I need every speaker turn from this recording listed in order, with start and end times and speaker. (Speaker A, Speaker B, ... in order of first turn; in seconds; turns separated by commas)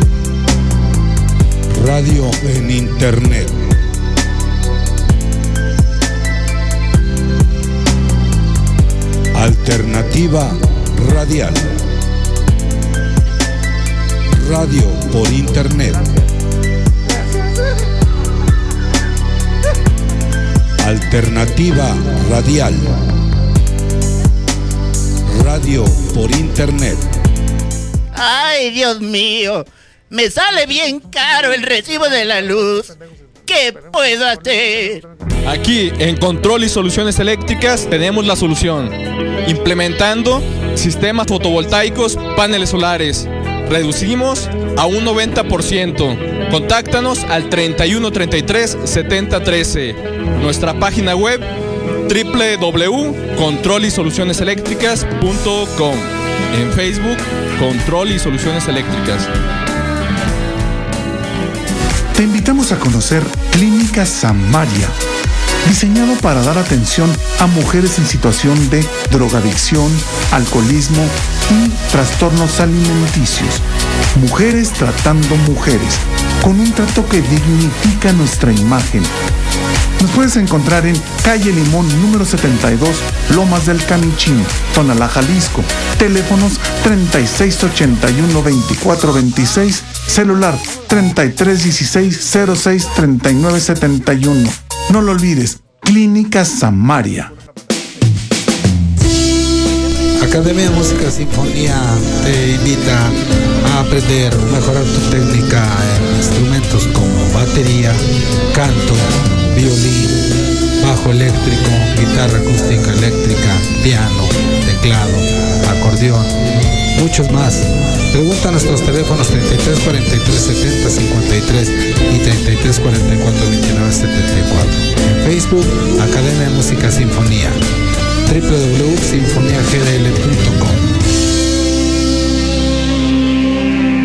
Speaker A: 1.7-3.6, Speaker A: 9.3-11.7, Speaker A: 14.3-16.1, Speaker A: 20.8-23.0, Speaker A: 25.2-27.1, Speaker B: 28.1-32.9, Speaker C: 30.5-35.4, Speaker B: 33.5-35.0, Speaker D: 35.4-51.4, Speaker D: 52.1-59.3, Speaker C: 62.1-65.0, Speaker C: 65.6-79.1, Speaker C: 80.0-97.5, Speaker E: 100.2-110.2, Speaker E: 110.8-116.3, Speaker E: 116.9-127.6, Speaker E: 128.2-130.9